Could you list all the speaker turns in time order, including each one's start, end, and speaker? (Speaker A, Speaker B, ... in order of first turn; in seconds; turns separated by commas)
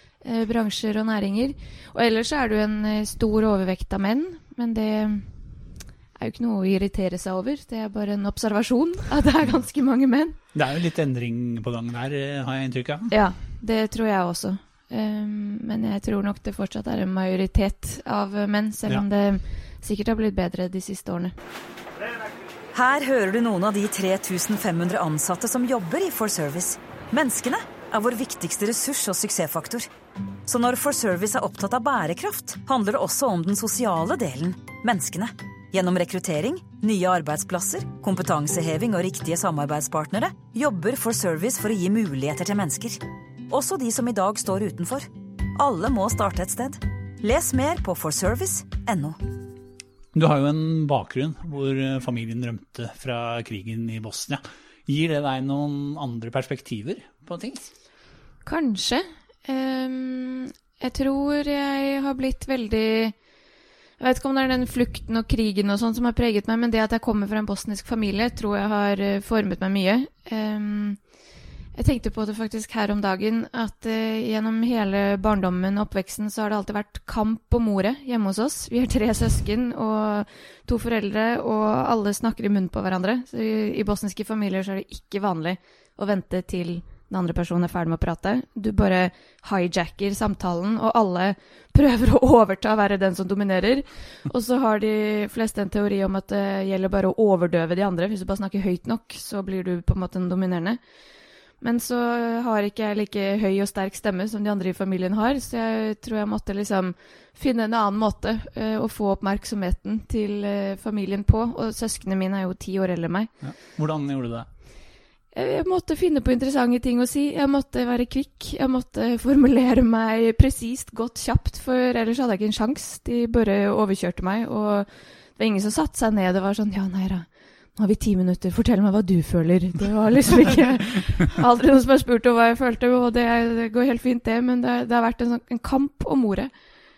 Speaker A: 0.2-5.3, Speaker A: 6.2-10.4, Speaker B: 10.5-13.1, Speaker A: 13.1-21.3, Speaker C: 22.7-29.9, Speaker C: 30.4-49.2, Speaker B: 50.1-57.7, Speaker A: 58.4-63.1, Speaker A: 64.0-71.0, Speaker A: 71.7-100.8, Speaker A: 101.6-113.3, Speaker B: 113.4-114.5, Speaker A: 115.3-136.5